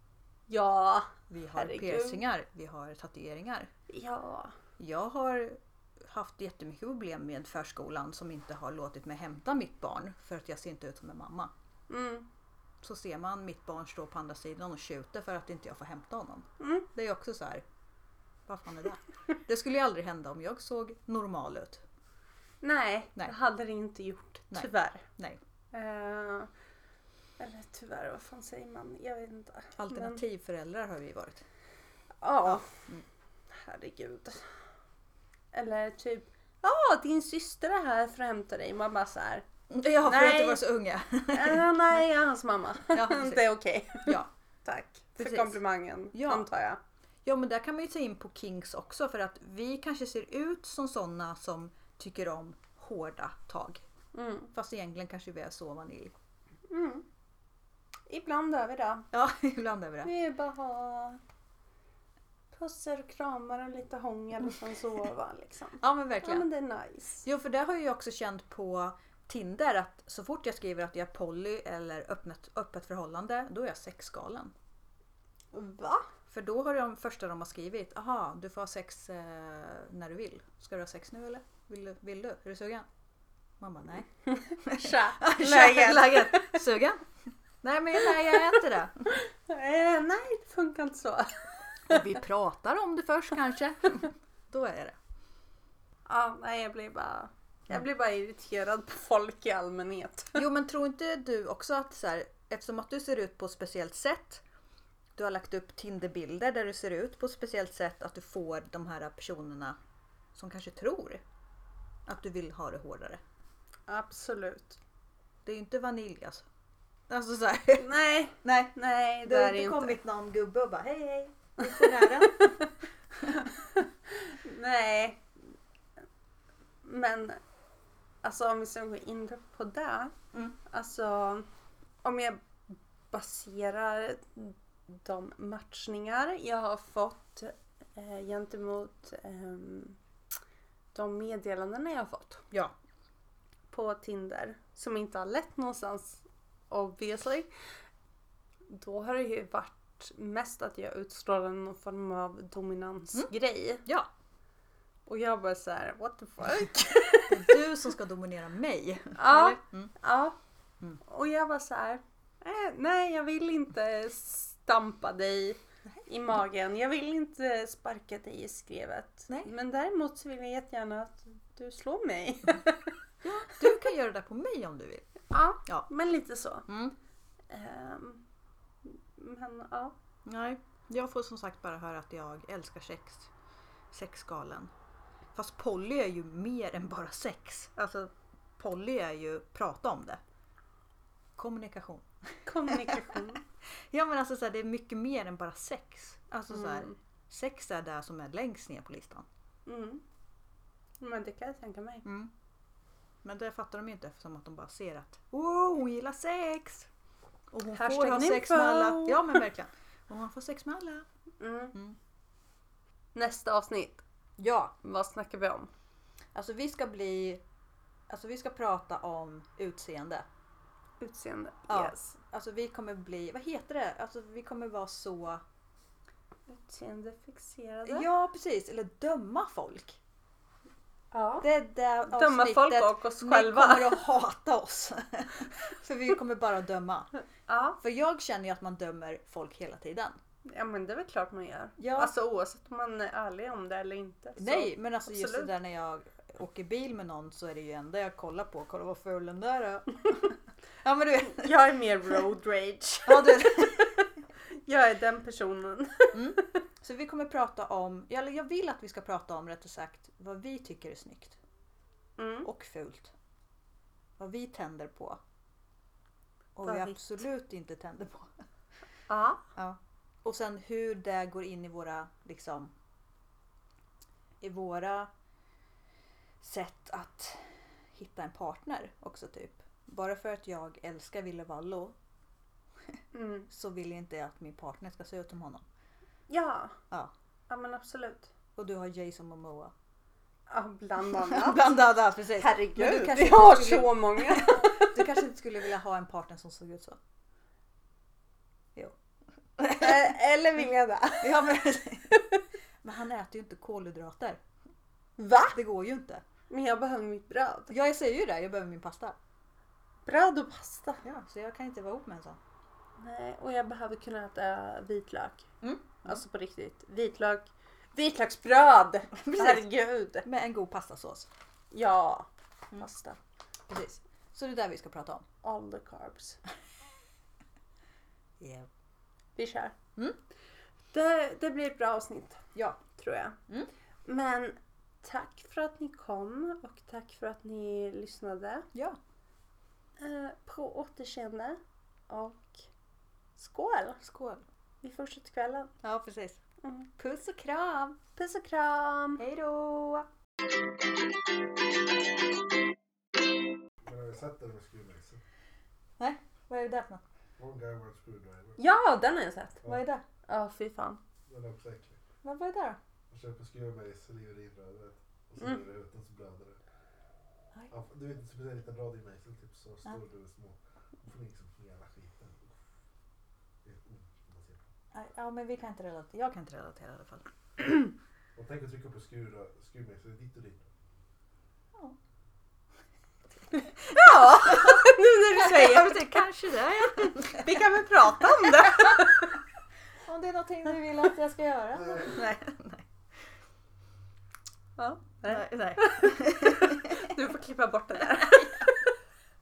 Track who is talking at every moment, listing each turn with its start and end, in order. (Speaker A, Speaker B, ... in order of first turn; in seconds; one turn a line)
Speaker A: 0.5-2.2
Speaker B: 1.3-3.7
Speaker A: 3.9-4.5
Speaker B: 4.8-11.5
Speaker A: 11.9-12.3
Speaker B: 12.8-17.6
Speaker A: 16.6-16.9
Speaker B: 18.5-21.8
Speaker A: 22.6-25.1
Speaker B: 24.5-25.4
Speaker A: 25.7-26.5
Speaker A: 27.4-30.2
Speaker B: 29.8-31.4
Speaker A: 32.2-32.9
Speaker A: 33.5-34.5
Speaker A: 35.5-39.5
Speaker B: 39.7-42.0
Speaker A: 40.0-40.6
Speaker A: 41.3-46.8
Speaker B: 42.9-43.4
Speaker B: 44.0-44.3
Speaker B: 45.2-45.6
Speaker B: 46.1-46.5
Speaker B: 47.2-53.8
Speaker A: 54.1-54.5
Speaker B: 54.5-56.1
Speaker A: 56.7-57.0
Speaker A: 58.1-59.1
Speaker B: 59.1-60.1
Speaker A: 60.0-61.2
Speaker A: 62.5-67.2
Speaker B: 65.8-66.5
Speaker B: 67.2-74.5
Speaker A: 75.5-76.1
Speaker B: 76.3-82.9
Speaker B: 83.6-89.0
Speaker A: 84.3-86.6
Speaker A: 89.1-92.0
Speaker B: 91.9-95.0
Speaker A: 96.0-100.4
Speaker B: 100.3-104.4
Speaker B: 105.2-109.8
Speaker B: 110.3-111.2
Speaker B: 112.0-113.2
Speaker A: 113.9-114.8
Speaker B: 115.4-116.5
Speaker B: 117.1-123.5
Speaker A: 117.8-120.0
Speaker A: 121.6-122.7
Speaker A: 123.4-125.3
Speaker A: 126.8-127.4
Speaker A: 128.2-131.4
Speaker A: 132.0-140.0
Speaker A: 140.9-142.5
Speaker A: 143.7-147.5
Speaker A: 148.7-153.8
Speaker B: 153.8-154.1
Speaker A: 155.1-157.6
Speaker B: 157.3-159.9
Speaker A: 159.2-160.4
Speaker A: 161.0-172.9
Speaker B: 173.2-175.1
Speaker A: 175.3-176.7
Speaker B: 176.7-176.9
Speaker A: 177.5-178.2
Speaker A: 178.8-179.9
Speaker B: 180.2-183.3
Speaker B: 183.9-184.7
Speaker B: 185.3-190.2
Speaker B: 191.3-199.2
Speaker A: 192.4-193.4
Speaker A: 196.5-196.9
Speaker A: 199.7-200.0
Speaker A: 201.0-202.0
Speaker B: 202.0-202.3
Speaker B: 203.2-206.9
Speaker B: 207.5-211.1
Speaker A: 207.7-209.4
Speaker A: 211.4-211.8
Speaker A: 213.1-214.0
Speaker B: 214.4-214.7
Speaker A: 214.8-215.7
Speaker B: 216.3-217.4
Speaker B: 218.1-220.2
Speaker A: 221.0-222.1
Speaker B: 221.7-225.4
Speaker A: 226.5-228.1
Speaker B: 227.9-230.0
Speaker A: 231.1-231.5
Speaker B: 231.4-237.1
Speaker A: 232.1-234.1
Speaker A: 237.5-237.8
Speaker B: 237.8-240.2
Speaker A: 240.4-245.5
Speaker B: 241.8-242.1
Speaker B: 244.4-251.5
Speaker A: 251.3-256.5
Speaker B: 253.1-253.9
Speaker B: 256.1-261.4
Speaker A: 262.2-262.5
Speaker B: 262.4-263.1
Speaker B: 264.2-265.2
Speaker B: 266.6-268.3
Speaker A: 266.6-267.0
Speaker A: 269.1-269.5
Speaker B: 269.6-272.7
Speaker B: 274.4-275.1
Speaker B: 276.4-281.9
Speaker A: 283.1-283.5
Speaker B: 283.5-285.6
Speaker A: 286.3-286.8
Speaker A: 287.5-288.3
Speaker B: 288.6-289.7
Speaker A: 290.5-291.6
Speaker B: 291.0-297.0
Speaker A: 292.3-295.0
Speaker B: 299.6-300.1
Speaker A: 299.8-301.5
Speaker B: 301.2-302.2
Speaker B: 302.8-304.4
Speaker A: 305.2-305.6
Speaker B: 305.5-306.2
Speaker A: 306.5-307.7
Speaker B: 307.7-309.1
Speaker A: 310.1-311.0
Speaker B: 311.0-312.4
Speaker A: 313.0-315.5
Speaker B: 315.6-316.2
Speaker A: 316.0-320.2
Speaker B: 319.2-319.7
Speaker B: 320.2-321.3
Speaker A: 321.7-323.2
Speaker B: 323.7-325.2
Speaker A: 325.4-326.4
Speaker B: 328.4-328.7
Speaker A: 329.4-329.7
Speaker A: 330.9-333.4
Speaker B: 332.5-332.8
Speaker A: 334.0-338.7
Speaker B: 338.7-339.0
Speaker A: 340.0-342.6
Speaker A: 343.4-344.0
Speaker B: 344.0-344.4
Speaker A: 344.8-345.7
Speaker B: 345.8-346.4
Speaker A: 346.6-347.0
Speaker B: 347.0-348.0
Speaker A: 348.1-349.2
Speaker B: 349.2-350.1
Speaker C: 353.8-355.2
Speaker B: 356.0-357.0
Speaker C: 357.4-358.6
Speaker A: 358.6-359.6
Speaker B: 359.6-360.0
Speaker A: 360.3-361.0
Speaker C: 361.3-362.0
Speaker B: 362.2-362.8
Speaker C: 363.1-366.6
Speaker C: 367.7-372.6
Speaker C: 373.6-374.6
Speaker B: 374.9-377.6
Speaker C: 378.4-380.7
Speaker B: 383.8-387.6
Speaker A: 383.9-386.2
Speaker A: 387.1-389.4
Speaker B: 388.2-389.2
Speaker B: 390.0-392.9
Speaker A: 394.8-398.9
Speaker B: 395.3-397.1
Speaker B: 398.1-398.7